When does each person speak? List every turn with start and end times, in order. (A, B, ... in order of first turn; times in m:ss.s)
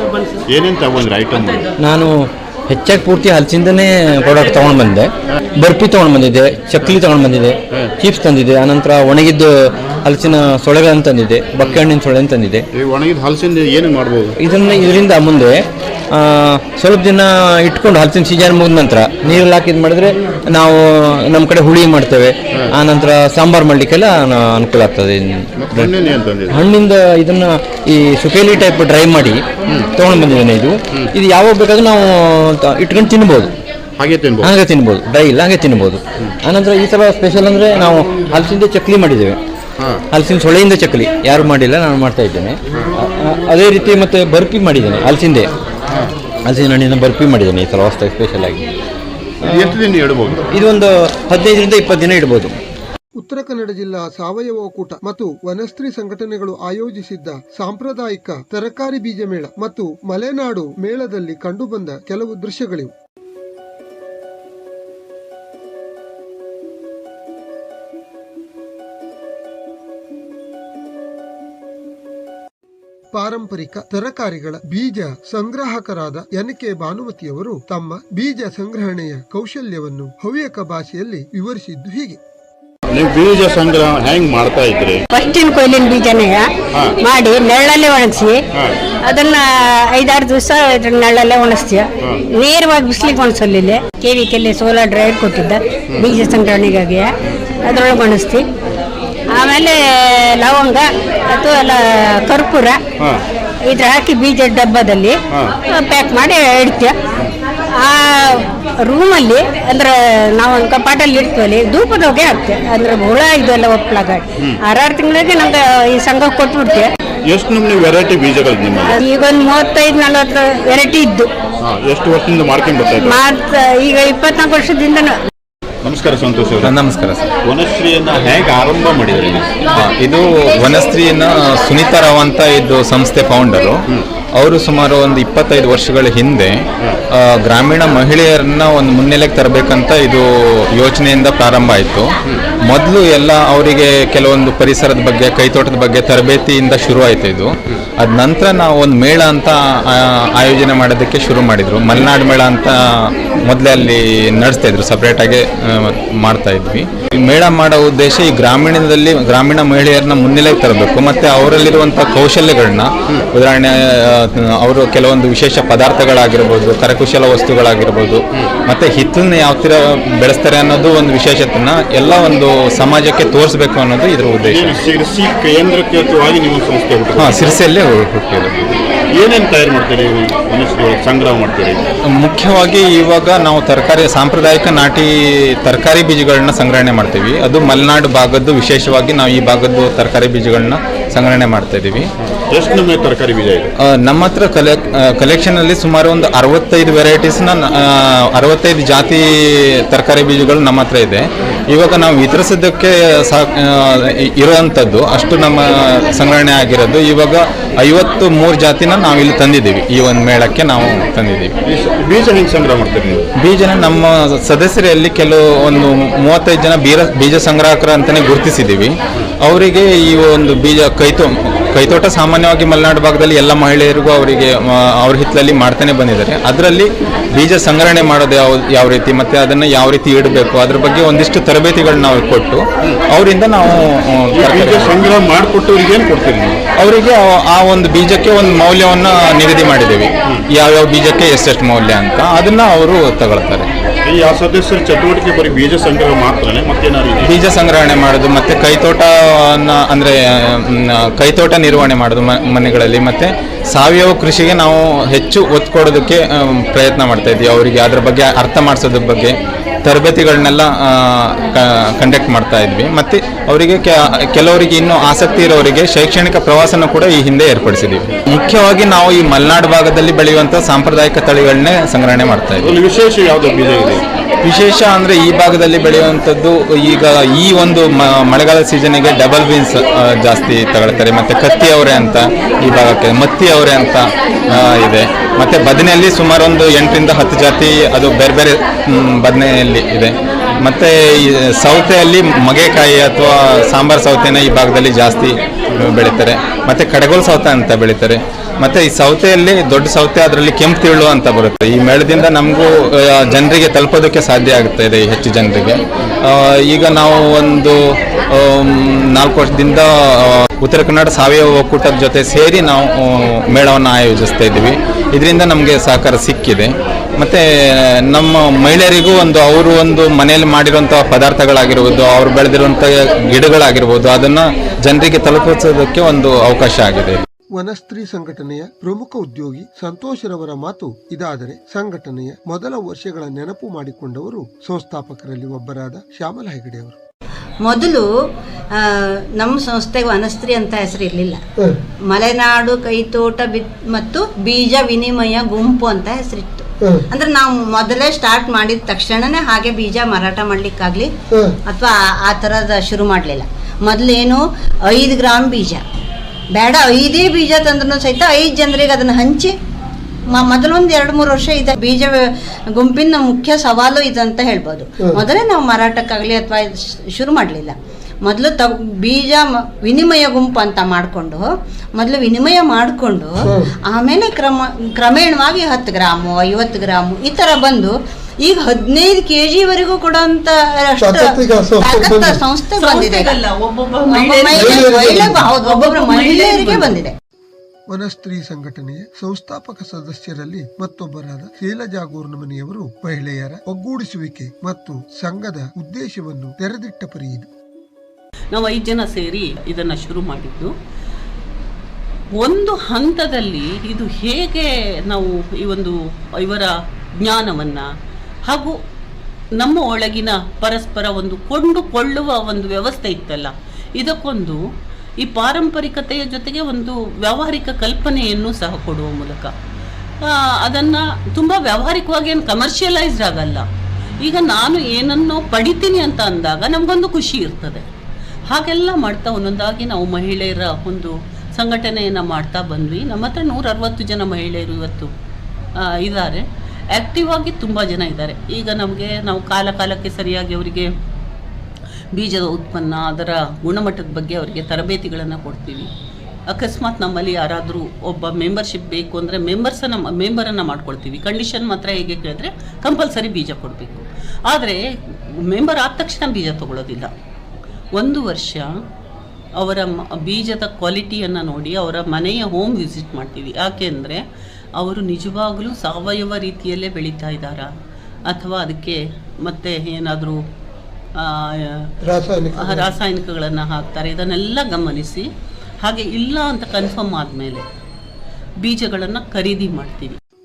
0:00.5-0:01.7 A
0:01.8-0:12.6 B
0:11.6-0:11.8 A
0:12.7-0:14.4 A
0:14.4-0:25.9 B
0:25.6-0:26.6 A
0:26.5-0:33.5 B
0:34.0-0:34.5 A
0:34.4-0:39.4 B
0:40.1-0:45.5 B
0:46.5-0:48.7 B
0:49.4-0:50.5 A
0:50.5-0:52.6 B
0:53.2-1:02.9 C
1:13.1-1:22.2 C
1:22.9-1:25.0 A
1:25.1-1:26.5 D
1:27.0-1:28.4 D
1:29.0-1:37.1 D
1:37.6-1:38.5 D
1:39.3-1:42.8 D
1:43.7-1:45.2 D
1:45.7-1:47.0 D
1:47.8-1:56.9 D
1:57.3-1:59.0 A
1:58.9-2:01.3 D
2:01.6-2:03.2 A
2:03.0-2:05.2 D
2:05.8-2:06.7 A
2:06.6-2:07.2 E
2:07.5-2:09.5 A
2:09.8-2:13.8 E
2:14.4-2:22.1 E
2:22.7-2:54.8 E
2:54.4-2:57.6 A
2:57.2-2:58.6 E
2:59.1-3:01.8 A
3:02.1-3:12.1 E
3:12.5-3:13.7 A
3:13.9-3:31.5 E
3:31.7-3:33.2 A
3:33.4-3:55.1 E
3:54.4-3:56.6 A
3:56.8-4:03.7 E
4:04.0-4:07.4 A
4:07.2-4:32.8 E
4:32.6-4:34.0 A
4:34.4-5:07.8 E
5:08.3-5:27.3 E
5:27.6-5:37.0 C
5:37.6-5:38.1 F
5:38.8-5:41.4 F
5:42.1-5:51.1 F
5:51.7-5:55.8 F
5:56.6-5:59.5 F
6:00.3-6:11.4 F
6:12.0-6:23.4 F
6:13.4-6:13.7 C
6:21.0-6:22.4 C
6:22.8-6:26.9 G
6:24.0-6:27.2 F
6:24.5-6:25.5 C
6:27.9-6:37.5 C
6:38.5-6:40.7 G
6:42.4-6:46.7 G
6:47.2-6:47.8 G
6:49.6-6:54.6 G
6:55.2-6:59.5 G
7:00.3-7:03.6 G
7:04.2-7:07.8 G
7:08.5-7:15.1 G
7:16.0-7:16.4 G
7:17.0-7:20.9 G
7:22.2-7:25.9 G
7:26.5-7:34.8 G
7:35.5-7:37.1 G
7:38.0-7:38.7 G
7:39.6-7:44.2 G
7:44.8-7:47.7 G
7:48.3-7:50.4 G
7:51.2-7:51.9 G
7:52.0-7:52.9 C
7:52.6-7:55.2 G
7:55.8-7:57.6 G
7:58.6-8:00.2 G